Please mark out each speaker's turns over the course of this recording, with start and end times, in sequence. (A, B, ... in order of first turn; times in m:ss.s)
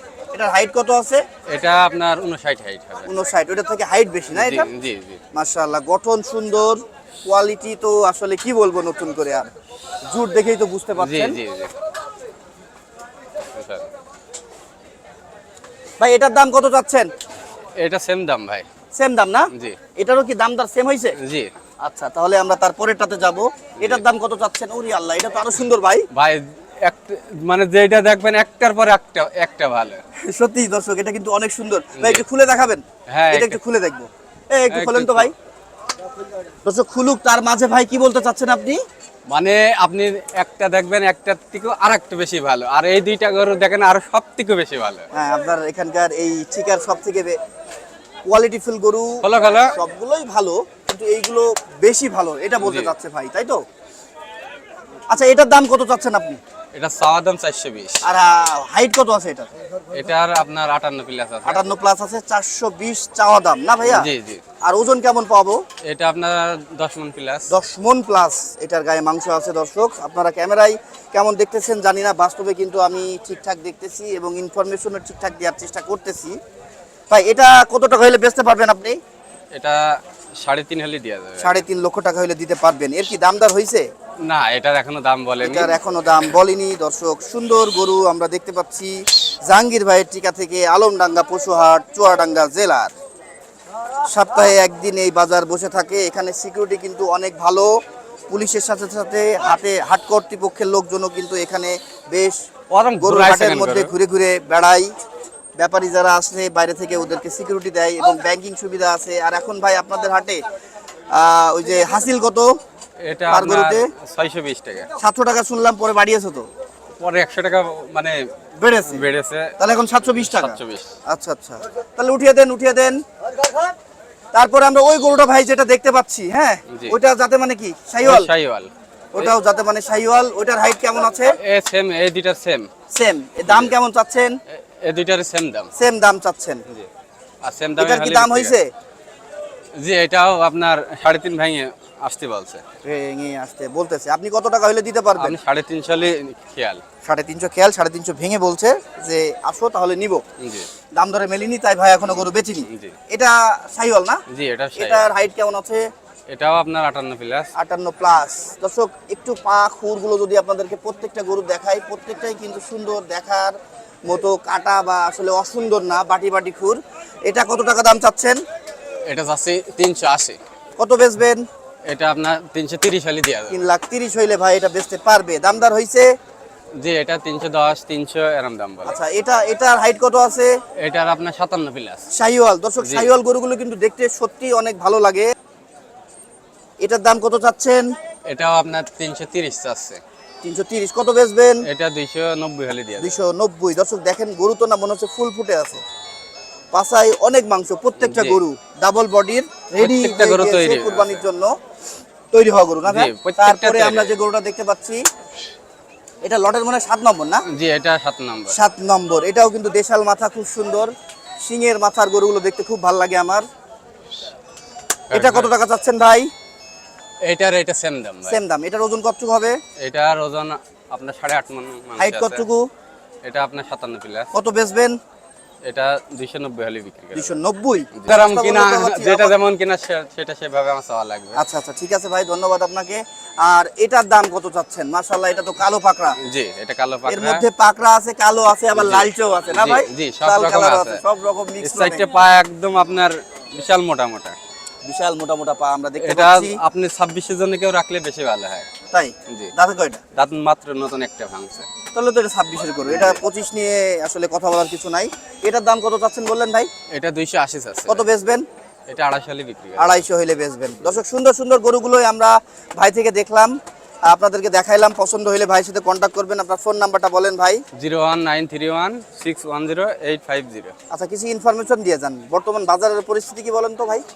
0:00.3-0:01.2 A
0:01.5-0:03.1 B
0:03.1-0:04.7 A
0:04.3-0:05.2 B
0:05.3-0:09.5 A
0:10.1-0:11.4 A
0:11.0-0:11.7 B
0:13.6-0:13.9 B
0:16.0-0:17.1 A
0:17.8-0:18.7 B
0:19.0-0:21.2 A
0:21.2-0:21.5 B
0:21.8-0:26.1 A
0:26.1-0:30.0 B
0:30.2-0:35.3 A
0:32.0-0:32.2 B
0:33.1-0:33.6 B
0:34.7-0:35.3 B
0:36.6-0:38.8 A
0:39.3-0:45.1 B
0:45.1-0:47.4 A
0:48.3-0:53.6 A
0:49.2-0:49.8 B
0:52.6-0:52.9 B
0:55.1-0:56.4 A
0:56.7-0:58.0 B
0:58.0-0:59.5 A
0:59.9-1:01.6 B
1:01.5-1:04.1 A
1:03.8-1:04.4 B
1:04.6-1:05.6 A
1:05.8-1:07.5 B
1:07.5-1:16.4 A
1:17.1-1:19.0 A
1:19.5-1:21.6 B
1:21.4-1:23.9 A
1:24.2-1:25.7 B
1:25.4-1:32.9 A
1:34.1-1:37.7 A
1:38.3-1:42.4 A
1:42.7-1:43.9 B
1:43.0-1:44.9 A
1:45.6-1:50.4 A
1:51.1-1:52.5 A
1:53.0-1:54.9 B
1:53.3-1:53.9 A
1:55.0-1:56.5 A
1:57.0-1:58.2 B
1:58.6-1:59.0 A
1:58.9-1:59.6 B
1:59.6-2:03.0 A
2:00.1-2:00.9 B
2:04.3-2:08.3 A
2:06.7-2:07.0 B
2:08.0-2:09.3 B
2:09.1-2:11.4 A
2:11.4-2:12.7 B
2:12.9-2:14.3 A
2:13.5-2:13.7 B
2:14.5-2:15.7 B
2:15.8-2:16.6 A
2:17.4-2:18.5 B
2:17.8-2:18.7 A
2:19.8-2:22.6 B
2:22.8-2:25.4 A
2:25.2-2:26.8 B
2:27.0-2:30.2 A
2:30.4-2:30.7 B
2:31.0-2:34.2 A
2:32.1-2:32.9 B
2:34.3-2:35.0 B
2:34.8-2:35.9 A
2:36.3-2:37.5 B
2:37.6-2:48.4 A
2:49.1-2:50.4 B
2:50.8-2:51.4 A
2:51.9-2:53.6 B
2:53.5-2:56.1 A
2:56.8-2:59.0 B
2:58.9-3:00.5 A
3:00.8-3:02.0 B
3:02.2-3:05.3 A
3:02.8-3:03.1 B
3:06.8-3:07.9 A
3:08.3-3:10.0 B
3:10.4-3:11.7 A
3:11.7-3:13.2 B
3:13.0-3:15.8 A
3:16.7-3:21.5 A
3:18.0-3:18.4 B
3:19.8-3:21.2 B
3:22.3-3:25.0 A
3:22.9-3:24.1 B
3:26.2-3:27.4 A
3:27.4-3:28.6 B
3:28.5-3:33.4 A
3:35.1-3:35.5 B
3:35.1-3:36.3 A
3:37.2-3:38.4 B
3:38.3-3:39.6 A
3:39.8-3:42.4 B
3:42.0-3:42.7 A
3:43.2-3:44.3 B
3:44.3-3:45.0 A
3:45.6-3:47.4 B
3:47.2-3:49.3 A
3:47.9-3:51.4 B
3:51.4-3:56.2 A
3:56.2-3:57.4 B
3:57.1-4:02.0 A
3:58.7-4:01.0 B
4:01.6-4:04.4 B
4:04.8-4:06.6 A
4:06.0-4:08.7 B
4:08.9-4:10.0 A
4:10.2-4:11.7 B
4:11.9-4:16.7 A
4:12.9-4:13.2 B
4:16.9-4:18.0 B
4:17.9-4:18.4 A
4:18.9-4:20.0 B
4:19.8-4:23.6 A
4:24.1-4:27.6 A
4:27.8-4:30.7 B
4:30.9-4:34.0 A